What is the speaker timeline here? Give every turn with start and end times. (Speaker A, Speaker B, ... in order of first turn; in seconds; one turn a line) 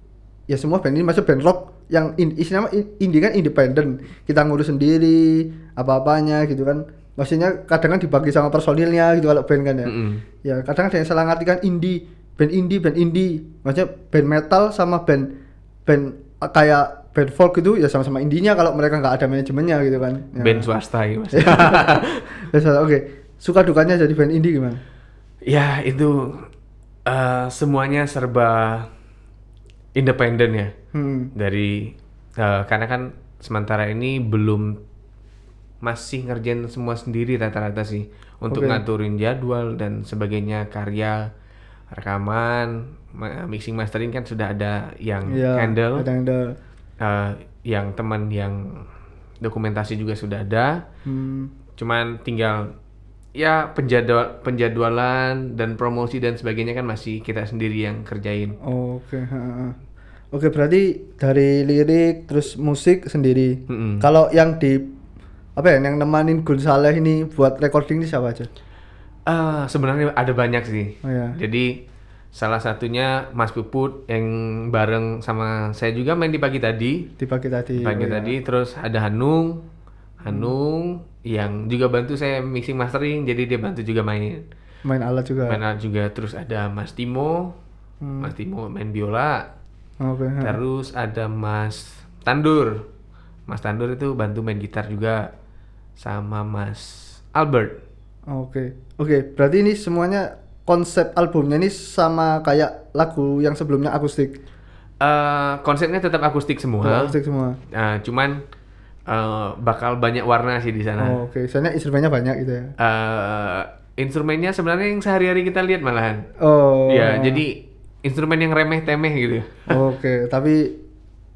Speaker A: 0.5-15.3
Speaker B: 9.8-10.2
Speaker A: 15.9-20.7
Speaker B: 20.4-22.3
Speaker A: 21.3-24.8
Speaker B: 25.5-26.5
Speaker B: 27.1-28.9
Speaker B: 29.9-30.7
Speaker A: 30.9-31.3
Speaker B: 31.4-34.8
Speaker B: 35.8-41.3
Speaker A: 38.5-38.8
Speaker B: 41.9-46.0
Speaker A: 45.3-46.5
Speaker B: 47.0-48.9
Speaker B: 49.4-50.9
Speaker A: 51.0-51.5
Speaker B: 51.8-52.7
Speaker B: 53.4-58.5
Speaker A: 58.6-59.8
Speaker A: 60.3-64.9
Speaker B: 63.7-64.1
Speaker A: 65.5-68.5
Speaker B: 69.3-71.8
Speaker A: 71.0-71.4
Speaker B: 72.3-77.1
Speaker A: 77.2-78.3
Speaker B: 77.8-79.6
Speaker B: 80.2-84.4
Speaker A: 84.8-85.6
Speaker B: 85.5-87.5
Speaker A: 88.0-88.3
Speaker B: 88.2-89.5
Speaker A: 90.0-90.6
Speaker B: 90.4-92.9
Speaker B: 93.5-95.3
Speaker B: 96.0-97.8
Speaker A: 98.3-104.4
Speaker B: 105.0-107.1
Speaker A: 106.8-107.6
Speaker B: 107.7-108.4
Speaker B: 109.1-111.2
Speaker A: 111.0-112.7
Speaker B: 112.8-116.3
Speaker A: 116.4-117.4
Speaker B: 116.9-119.7
Speaker A: 119.7-120.8